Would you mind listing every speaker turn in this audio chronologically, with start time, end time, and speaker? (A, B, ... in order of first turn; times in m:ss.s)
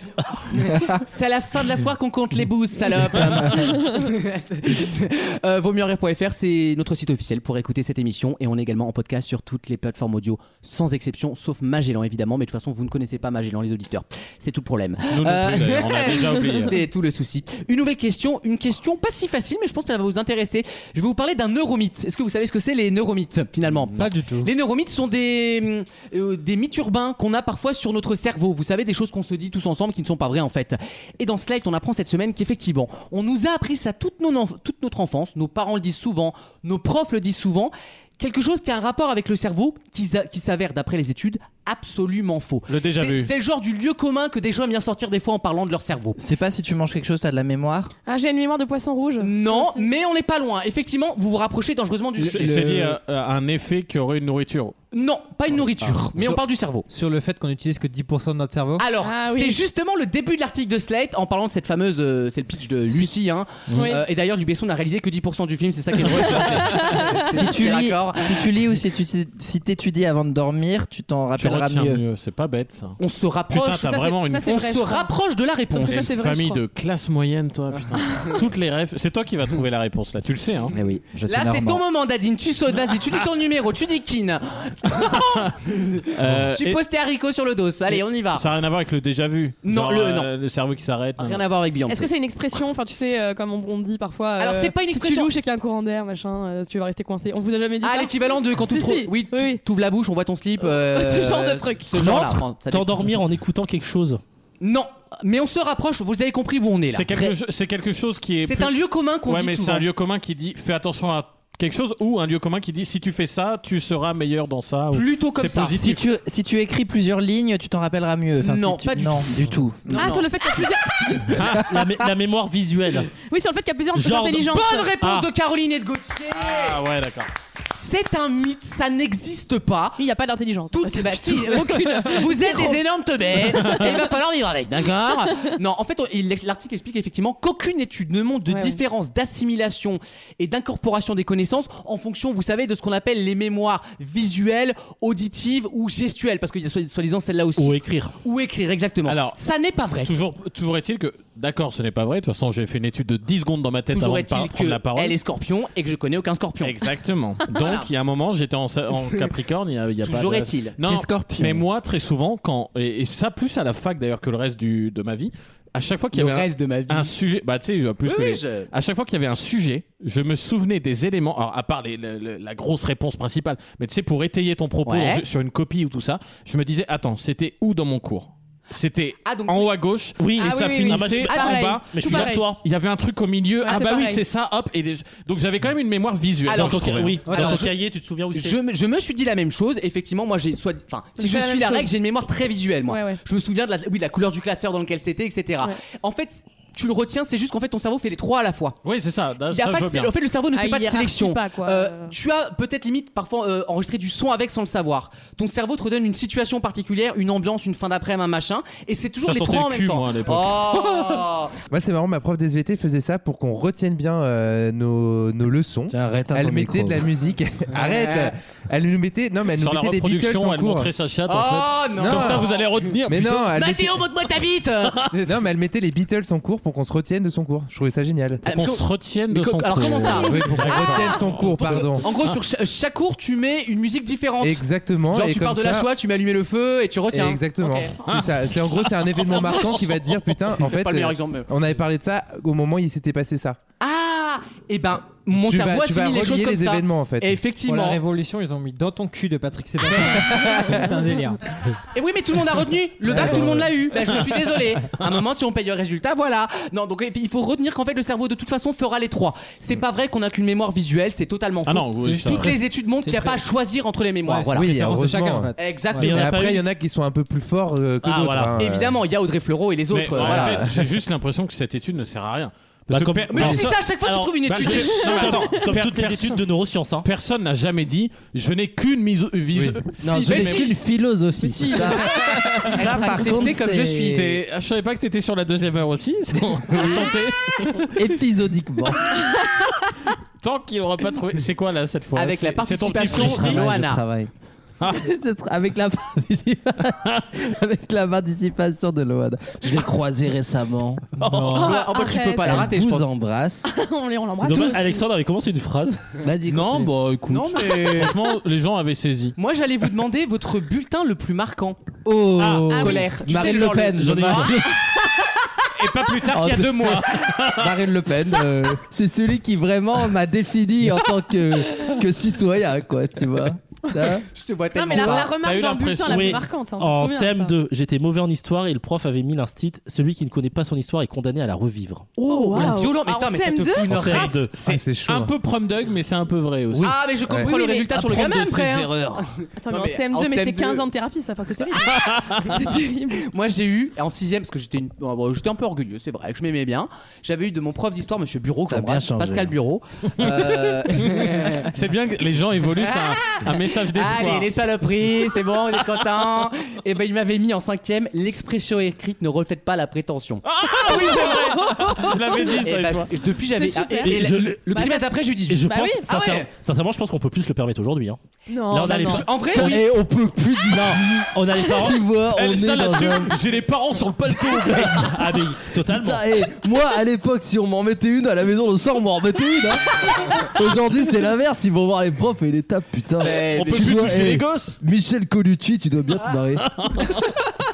0:00.5-0:46.2 A
0:15.1-0:16.8 B
0:24.0-0:24.5 C
0:42.7-0:43.3 B
0:46.2-0:47.9 D
0:48.0-0:49.9 E
0:49.2-0:52.7 A
0:52.2-0:53.0 C
0:52.2-0:54.8 B
0:54.9-0:56.8 A
0:55.8-0:56.4 C
0:56.9-0:58.8 C
0:58.8-1:08.5 A
0:59.0-0:59.6 E
1:03.7-1:04.0 B
1:03.7-1:04.0 E
1:06.3-1:07.4 E
1:07.3-1:12.0 D
1:11.4-1:14.6 B
1:13.0-1:16.1 A
1:14.2-1:15.1 E
1:15.7-1:16.6 E
1:15.8-1:20.7 B
1:20.7-1:21.8 D
1:20.8-1:28.4 A
1:25.0-1:25.5 B
1:26.1-1:26.8 B
1:27.9-1:31.4 B
1:29.6-1:30.3 A
1:31.2-1:32.1 A
1:31.9-1:39.6 E
1:34.4-1:35.4 A
1:37.8-1:43.0 A
1:40.7-1:42.3 E
1:42.6-1:44.2 F
1:44.6-1:47.3 A
1:46.9-1:56.0 B
1:48.4-1:49.8 A
1:54.9-1:55.7 A
1:55.7-2:00.2 D
1:58.4-2:00.3 A
1:59.9-2:01.4 E
2:01.3-2:01.7 B
2:01.5-2:03.1 F
2:03.2-2:04.9 E
2:03.9-2:05.3 F
2:04.4-2:06.8 A
2:06.3-2:07.3 B
2:07.7-2:10.0 A
2:10.0-2:12.8 E
2:10.7-2:30.1 A
2:13.4-2:14.1 B
2:18.5-2:18.8 E
2:27.6-2:28.1 F
2:29.0-2:29.4 B
2:30.0-2:35.2 B
2:33.9-2:36.8 A
2:36.6-3:07.6 B
2:37.5-2:37.9 A
2:40.0-2:40.8 A
2:40.8-2:41.6 D
2:46.1-2:47.1 A
2:48.0-2:48.7 A
2:54.8-2:55.2 A
2:59.2-2:59.7 A
3:00.2-3:02.6 F
3:00.4-3:02.6 E
3:01.3-3:01.5 A
3:03.6-3:04.2 E
3:06.5-3:07.8 A
3:06.5-3:08.6 F
3:07.3-3:07.6 C
3:08.3-3:18.8 A
3:11.2-3:11.9 E
3:12.9-3:13.2 E
3:18.8-3:20.1 B
3:19.5-3:31.5 A
3:20.5-3:22.2 E
3:29.2-3:31.1 B
3:31.7-3:40.9 G
3:35.9-3:37.1 H
3:37.8-3:38.3 A
3:39.6-3:43.7 B
3:41.3-3:42.7 A
3:42.0-3:42.5 G
3:43.0-3:44.0 G
3:43.5-3:45.4 A
3:45.2-3:48.4 G
3:48.4-3:57.9 A
3:48.5-3:52.4 B
3:50.1-3:52.1 G
3:54.4-3:55.9 G
3:57.1-4:03.6 G
3:58.0-3:59.7 B
4:00.6-4:01.5 A
4:03.8-4:08.0 A
4:05.3-4:07.4 G
4:07.6-4:11.4 C
4:10.2-4:10.7 A
4:11.9-4:24.7 A
4:13.0-4:13.6 C
4:13.1-4:13.7 G
4:21.6-4:22.5 B
4:22.0-4:23.4 C
4:24.2-4:26.2 C
4:24.5-4:29.0 G
4:25.6-4:26.4 A
4:26.0-4:26.6 F
4:28.0-4:28.6 F
4:28.6-4:30.8 A
4:29.9-4:33.7 B
4:32.9-4:37.1 F
4:33.3-4:35.4 A
4:34.4-4:36.4 B
4:37.0-4:40.7 B
4:39.5-4:39.8 G
4:40.0-4:44.0 H
4:40.1-4:40.7 A
4:41.4-4:42.1 E
4:42.6-4:44.4 A
4:44.0-4:48.0 B
4:46.7-4:47.0 H
4:47.9-4:49.0 H
4:50.4-4:53.9 B
4:52.1-4:54.0 A
4:53.1-4:54.3 H
4:55.0-5:01.0 H
5:01.2-5:01.7 C
5:01.2-5:01.6 F
5:01.5-5:02.7 E
5:01.5-5:03.1 A
5:02.5-5:03.7 H
5:03.6-5:05.1 E
5:04.4-5:06.0 F
5:06.2-5:06.9 H
5:06.4-5:09.3 B
5:07.3-5:08.3 A
5:09.4-5:12.0 A
5:12.0-5:14.6 H
5:12.4-5:13.0 B
5:12.7-5:14.6 A
5:12.7-5:13.1 E
5:13.9-5:14.6 F
5:14.0-5:14.4 B
5:15.8-5:17.7 B
5:16.2-5:24.3 H
5:24.3-5:25.3 A
5:24.7-5:27.6 E
5:24.9-5:25.3 H
5:25.3-5:26.3 B
5:26.0-5:32.1 F
5:32.2-5:34.4 A
5:32.2-5:34.4 E
5:33.9-5:34.6 F
5:34.2-5:37.0 B
5:34.6-5:35.3 G
5:36.8-5:40.8 A
5:37.4-5:37.9 E
5:37.9-5:39.2 B
5:39.6-5:43.2 E
5:41.8-5:42.4 B
5:42.7-5:51.7 A
5:48.7-5:49.5 H
5:50.2-5:54.5 B
5:52.7-6:01.3 A
6:00.4-6:03.1 B
6:00.9-6:02.1 E
6:02.6-6:06.5 A
6:03.5-6:06.1 E
6:04.0-6:04.8 F
6:05.5-6:10.0 F
6:08.5-6:09.8 E
6:08.7-6:09.9 A
6:09.8-6:13.4 H
6:10.6-6:12.1 F
6:12.2-6:15.3 B
6:15.0-6:16.3 F
6:15.9-6:26.6 H
6:23.2-6:24.0 A
6:23.3-6:24.8 B
6:26.6-6:27.2 B